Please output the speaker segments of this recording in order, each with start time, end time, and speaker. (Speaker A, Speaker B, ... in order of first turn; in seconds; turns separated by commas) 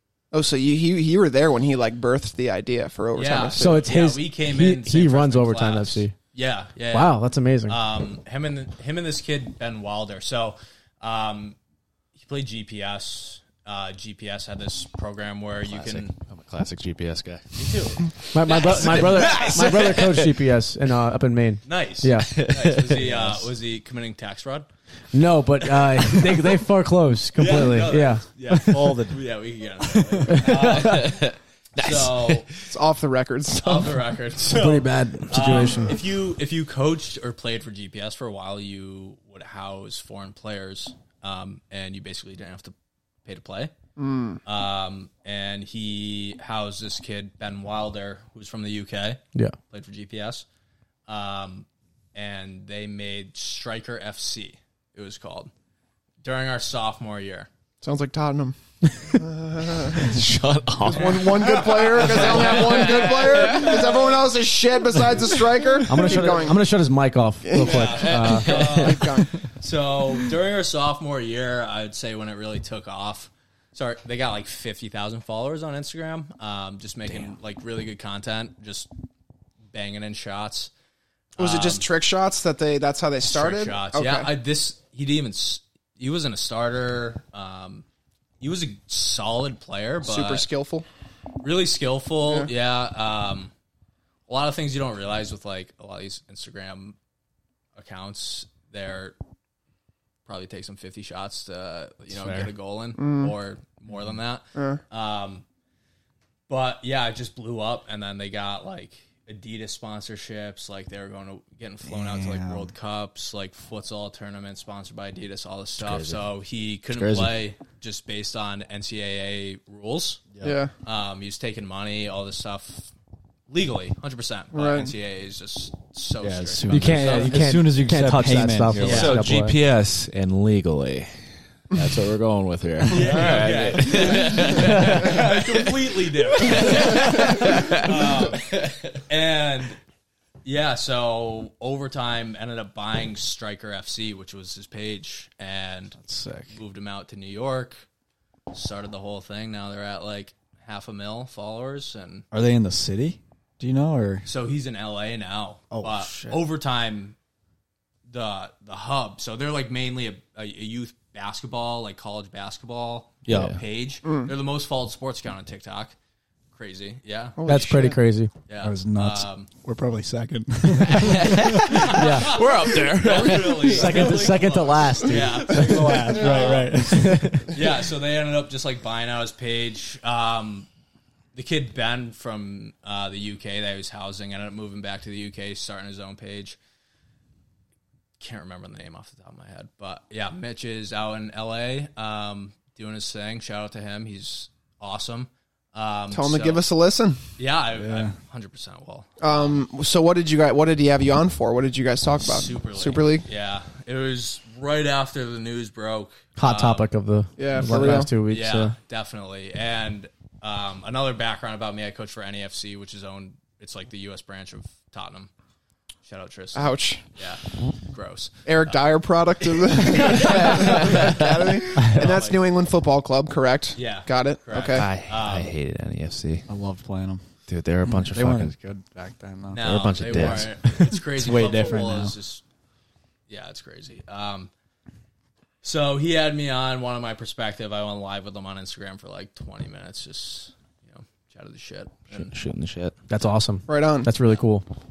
Speaker A: 0.3-3.9, Speaker B: 3.1-11.6, Speaker C: 3.6-6.1, Speaker C: 6.9-7.8, Speaker B: 12.1-16.1, Speaker D: 15.6-17.8, Speaker B: 17.6-18.0, Speaker C: 18.3-22.4, Speaker D: 18.7-20.2, Speaker B: 18.7-19.9, Speaker B: 21.7-24.7, Speaker D: 22.3-23.4, Speaker C: 25.1-28.2, Speaker B: 25.9-26.3, Speaker B: 27.4-32.5, Speaker E: 28.5-29.2, Speaker C: 30.3-30.9, Speaker D: 30.4-32.5, Speaker A: 32.7-34.0, Speaker B: 33.5-42.7, Speaker C: 34.5-36.0, Speaker B: 43.2-43.7, Speaker A: 44.0-44.4, Speaker B: 44.5-49.2, Speaker B: 49.7-50.4, Speaker B: 51.1-55.5, Speaker B: 56.2-57.5, Speaker A: 57.8-58.6, Speaker A: 59.1-60.2, Speaker D: 59.9-64.0, Speaker A: 60.8-66.6, Speaker B: 60.9-64.0, Speaker C: 65.9-68.8, Speaker A: 67.5-69.3, Speaker B: 67.5-78.9, Speaker B: 79.7-80.7, Speaker B: 81.4-81.9, Speaker A: 81.4-84.3, Speaker B: 83.3-87.8, Speaker B: 88.4-90.5, Speaker A: 90.0-90.9, Speaker B: 91.4-93.5, Speaker B: 94.3-97.0, Speaker B: 97.8-99.2, Speaker B: 100.2-105.4, Speaker E: 102.1-102.5, Speaker A: 103.0-103.3, Speaker A: 104.5-104.8, Speaker B: 106.5-120.2, Speaker E: 111.9-112.7, Speaker D: 115.8-116.2, Speaker D: 116.9-117.4, Speaker A: 120.4-120.7, Speaker B: 120.8-122.9, Speaker B: 123.5-127.5, Speaker A: 124.5-124.9, Speaker E: 126.2-129.2, Speaker C: 126.7-129.6, Speaker B: 128.8-129.3, Speaker D: 128.8-135.7, Speaker B: 132.9-139.8, Speaker C: 134.5-135.1, Speaker D: 136.4-138.1, Speaker B: 140.4-146.0, Speaker E: 146.0-146.6, Speaker B: 146.5-147.8, Speaker B: 148.5-152.2, Speaker E: 152.3-154.3, Speaker B: 154.2-157.2, Speaker E: 155.7-156.3, Speaker B: 158.1-165.9, Speaker D: 163.2-163.6, Speaker A: 164.0-164.3, Speaker B: 166.5-167.4, Speaker A: 167.4-168.0, Speaker C: 167.5-168.3, Speaker B: 168.5-169.5, Speaker E: 168.6-171.9, Speaker B: 170.7-176.8, Speaker D: 170.9-174.2, Speaker C: 171.9-172.3, Speaker C: 173.7-175.6, Speaker E: 175.5-177.6, Speaker A: 176.1-176.6, Speaker C: 176.8-177.5, Speaker B: 177.5-180.7, Speaker B: 181.3-186.6, Speaker B: 188.2-196.6, Speaker A: 196.1-197.2, Speaker B: 197.4-199.4, Speaker E: 197.8-198.1, Speaker A: 199.2-203.2, Speaker B: 202.2-206.9, Speaker C: 206.4-208.8, Speaker A: 207.4-208.1, Speaker E: 207.7-208.0, Speaker B: 208.1-215.3, Speaker B: 216.0-218.8, Speaker A: 216.5-217.0, Speaker A: 218.5-224.9, Speaker B: 219.4-222.4, Speaker D: 220.2-221.4, Speaker B: 223.8-225.5, Speaker D: 224.7-226.5, Speaker E: 226.5-227.2, Speaker D: 227.5-228.5, Speaker E: 227.9-232.1, Speaker B: 229.5-232.4, Speaker D: 229.6-230.5, Speaker B: 233.3-234.5, Speaker B: 235.6-242.3, Speaker D: 242.1-242.9, Speaker C: 243.1-244.7, Speaker A: 243.7-244.1